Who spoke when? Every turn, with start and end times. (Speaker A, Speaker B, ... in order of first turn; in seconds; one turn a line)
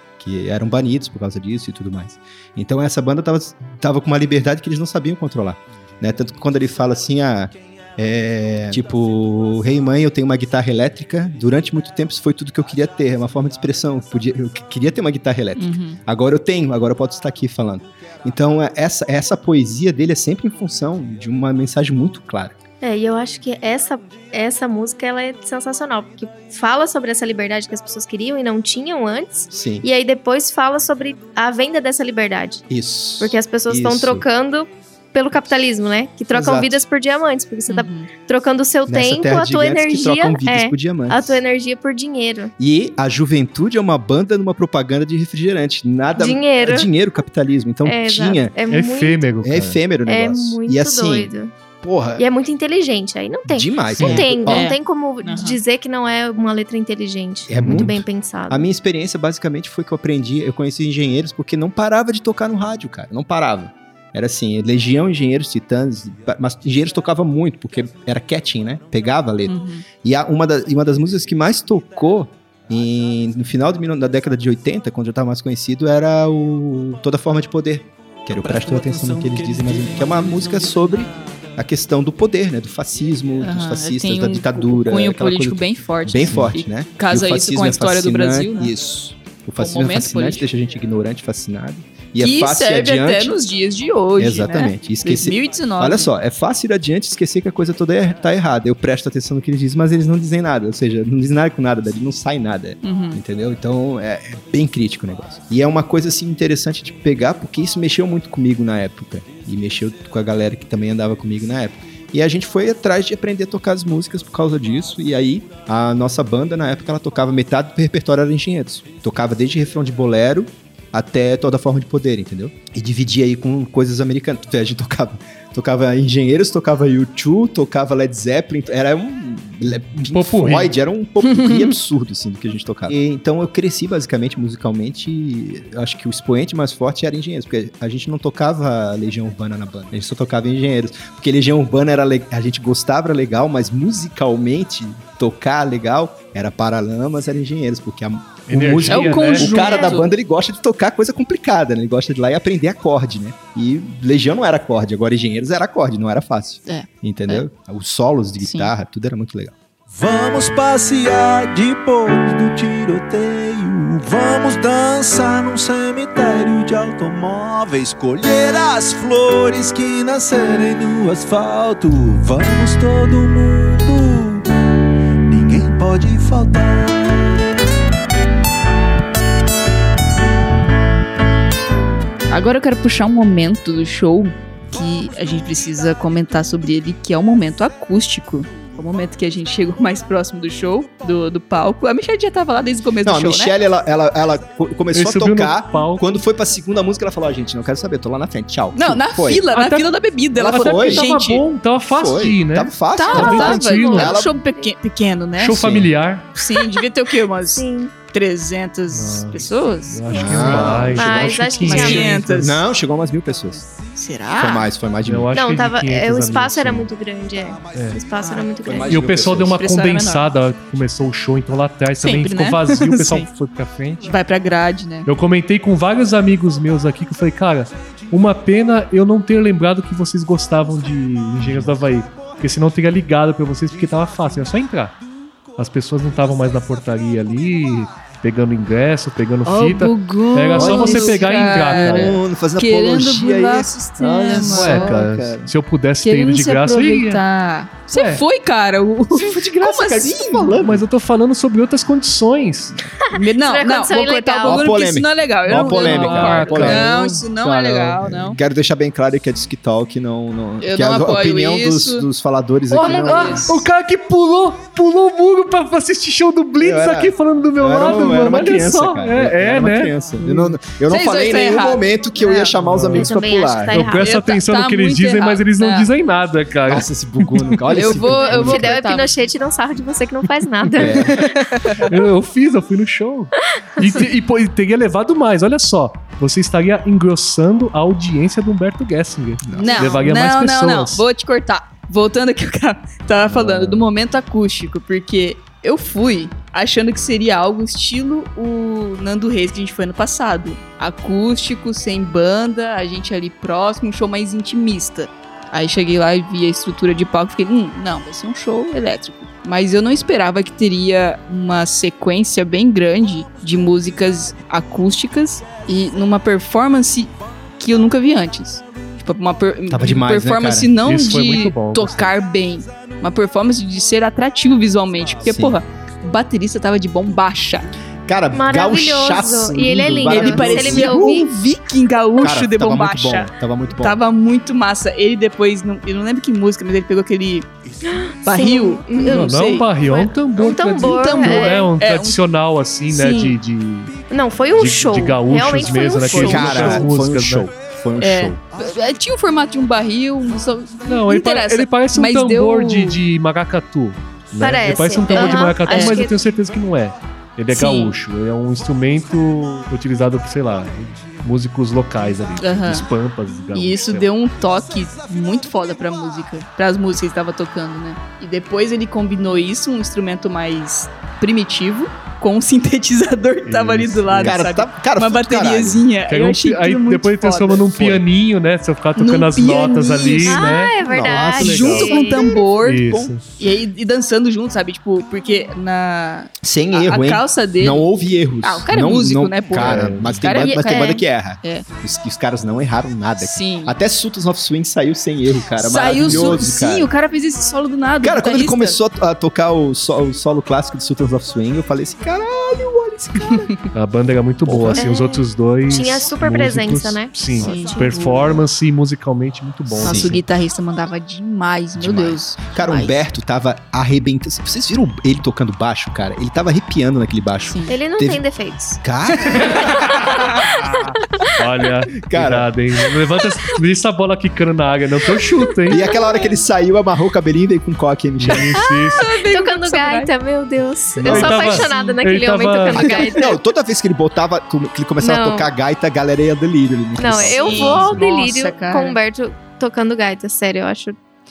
Speaker A: 0.2-22.6
Speaker B: 15.6-16.0
Speaker C: 22.8-32.6
Speaker A: 29.5-29.9
Speaker A: 32.7-34.3
Speaker C: 33.2-42.5
Speaker A: 36.3-36.8
Speaker B: 37.7-38.1
Speaker A: 38.9-41.4
Speaker A: 42.6-48.5
Speaker C: 46.2-46.9
Speaker C: 47.9-49.2
Speaker D: 48.7-49.8
Speaker A: 49.4-52.2
Speaker C: 50.1-51.5
Speaker C: 52.2-58.7
Speaker A: 53.5-54.7
Speaker B: 54.0-55.6
Speaker A: 57.5-93.4
Speaker D: 57.6-57.9
Speaker B: 69.5-69.8
Speaker E: 78.3-81.1
Speaker B: 83.4-88.7
Speaker B: 89.6-90.5
Speaker B: 92.2-96.1
Speaker A: 94.2-159.6
Speaker B: 102.8-103.2
Speaker D: 130.0-130.7
Speaker B: 131.2-131.8
Speaker D: 148.5-149.6
Speaker B: 148.9-150.1
Speaker C: 149.6-150.0
Speaker B: 156.7-157.4
Speaker B: 158.4-158.7
Speaker E: 159.9-174.6
Speaker E: 175.3-177.4
Speaker B: 182.3-193.6
Speaker A: 193.0-199.5
Speaker D: 194.9-196.2
Speaker B: 198.8-201.4
Speaker D: 199.5-204.2
Speaker A: 200.4-201.1
Speaker A: 201.9-204.3
Speaker B: 202.9-205.6
Speaker C: 203.5-204.7
Speaker D: 205.4-206.4
Speaker A: 205.6-205.9
Speaker B: 206.3-210.9
Speaker C: 207.6-207.9
Speaker D: 208.9-212.6
Speaker A: 210.1-213.7
Speaker C: 210.9-212.2
Speaker B: 211.6-212.6
Speaker B: 213.9-214.7
Speaker A: 214.4-215.3
Speaker D: 215.0-216.9
Speaker C: 215.3-219.1
Speaker D: 217.7-218.0
Speaker B: 218.2-218.5
Speaker A: 218.6-219.6
Speaker D: 218.9-224.1
Speaker B: 219.6-220.3
Speaker B: 222.0-223.3
Speaker B: 224.0-225.1
Speaker D: 225.1-235.0
Speaker A: 231.4-231.8
Speaker D: 235.6-242.2
Speaker B: 239.4-245.0
Speaker A: 240.6-245.5
Speaker D: 244.3-247.2
Speaker B: 246.0-250.6
Speaker D: 247.9-248.2
Speaker A: 249.1-250.8
Speaker D: 250.5-252.8
Speaker C: 253.1-254.7
Speaker B: 253.1-258.4
Speaker A: 254.4-263.6
Speaker D: 255.5-257.2
Speaker B: 260.6-262.1
Speaker B: 262.7-263.6
Speaker D: 262.7-270.0
Speaker A: 266.6-273.9
Speaker B: 270.2-272.5
Speaker D: 272.5-273.1
Speaker C: 272.9-274.1
Speaker D: 273.7-277.6
Speaker B: 274.0-275.9
Speaker A: 276.7-278.8
Speaker B: 277.7-279.1
Speaker C: 278.2-281.7
Speaker D: 280.6-280.9
Speaker A: 280.8-281.2
Speaker B: 281.0-281.9
Speaker D: 281.7-291.0
Speaker A: 289.4-289.9
Speaker B: 289.6-327.7
Speaker D: 293.3-293.9
Speaker A: 319.7-320.8
Speaker D: 320.8-322.1
Speaker A: 325.2-325.6
Speaker A: 328.1-331.1
Speaker C: 328.3-331.4
Speaker B: 330.0-337.5
Speaker A: 332.2-334.0
Speaker C: 337.9-341.7
Speaker B: 338.2-339.7
Speaker D: 339.0-344.0
Speaker B: 340.8-342.2
Speaker B: 342.9-343.4
Speaker C: 344.1-346.9
Speaker D: 344.5-347.5
Speaker B: 345.8-346.9
Speaker A: 346.1-348.4
Speaker B: 348.0-353.0
Speaker D: 350.9-364.1
Speaker C: 354.4-356.1
Speaker B: 355.1-356.1
Speaker B: 357.5-358.0
Speaker B: 362.4-362.9
Speaker B: 363.5-378.0
Speaker D: 373.5-374.4
Speaker A: 374.2-375.9
Speaker D: 376.1-383.2
Speaker B: 379.0-380.6
Speaker C: 380.2-382.4
Speaker A: 380.8-383.2
Speaker B: 381.4-387.9
Speaker A: 386.4-396.9
Speaker B: 388.4-391.7
Speaker D: 389.5-390.3
Speaker C: 390.7-391.0
Speaker B: 393.2-393.8
Speaker B: 395.6-398.8
Speaker A: 398.0-403.5
Speaker B: 403.2-403.7
Speaker D: 403.7-410.2
Speaker A: 404.5-404.9
Speaker C: 404.8-408.1
Speaker B: 407.4-408.4
Speaker A: 409.7-410.2
Speaker B: 409.8-413.0
Speaker A: 411.8-418.2
Speaker B: 417.4-417.8
Speaker C: 417.7-418.8
Speaker A: 418.8-420.9
Speaker B: 419.2-420.5
Speaker C: 420.3-421.3
Speaker D: 421.4-425.9
Speaker A: 422.0-422.5
Speaker A: 425.7-428.7
Speaker C: 425.7-426.4
Speaker D: 428.2-429.1
Speaker C: 428.7-433.4
Speaker B: 429.0-430.1
Speaker A: 431.0-431.7
Speaker D: 431.0-433.1
Speaker B: 431.4-432.0
Speaker B: 432.8-433.1
Speaker A: 432.8-438.0
Speaker C: 435.0-435.5
Speaker C: 437.0-441.0
Speaker B: 437.4-439.0